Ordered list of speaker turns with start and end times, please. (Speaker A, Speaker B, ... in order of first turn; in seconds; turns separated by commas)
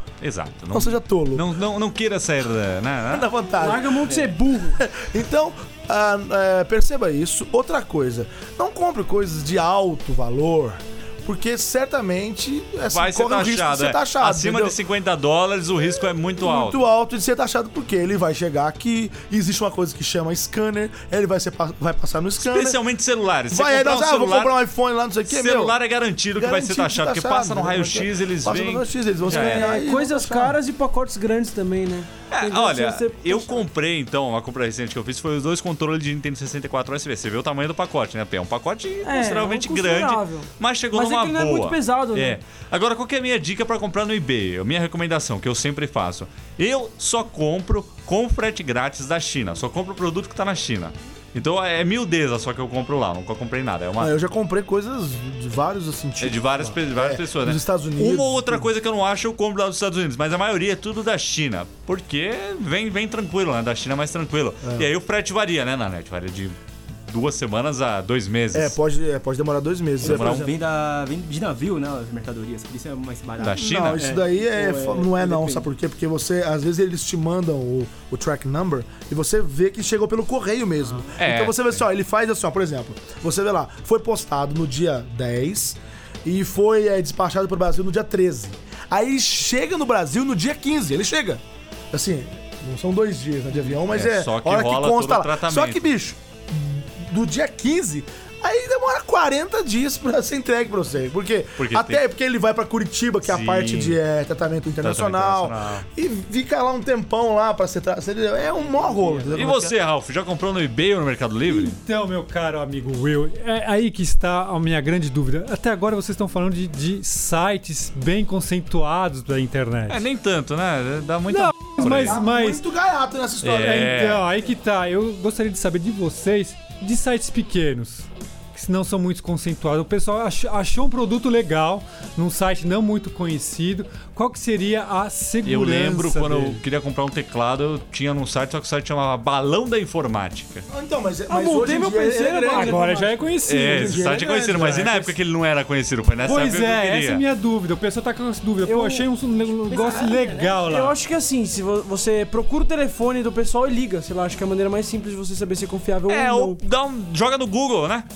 Speaker A: 0.2-3.3, Speaker B: 0.7-1.4, Speaker B: 3.1-14.8, Speaker C: 3.6-4.8, Speaker A: 12.9-16.8, Speaker B: 16.4-22.8, Speaker A: 22.4-24.6, Speaker B: 23.5-25.8, Speaker A: 25.3-29.8, Speaker B: 26.4-30.6, Speaker C: 29.3-33.6, Speaker A: 32.3-54.1, Speaker C: 39.0-42.4, Speaker B: 54.0-58.7, Speaker A: 56.2-68.8, Speaker B: 64.6-64.9, Speaker B: 68.5-70.5, Speaker A: 70.0-70.5, Speaker D: 70.0-75.7, Speaker A: 73.4-74.0, Speaker B: 73.4-109.8, Speaker A: 81.2-81.8, Speaker A: 93.9-95.9, Speaker A: 101.6-102.0, Speaker A: 103.2-104.0, Speaker A: 104.8-105.8, Speaker D: 108.6-109.3, Speaker A: 109.3-111.8, Speaker E: 111.5-120.1, Speaker A: 119.9-122.2, Speaker E: 121.7-122.6, Speaker B: 121.8-124.0, Speaker A: 123.4-124.3, Speaker E: 123.5-136.6, Speaker A: 135.4-140.7, Speaker B: 140.7-142.8, Speaker C: 141.3-143.3, Speaker E: 142.5-144.9, Speaker A: 143.4-147.2, Speaker B: 143.7-145.2, Speaker E: 146.2-151.0, Speaker C: 148.6-149.1, Speaker D: 149.7-150.7, Speaker C: 150.6-156.6, Speaker A: 156.1-158.1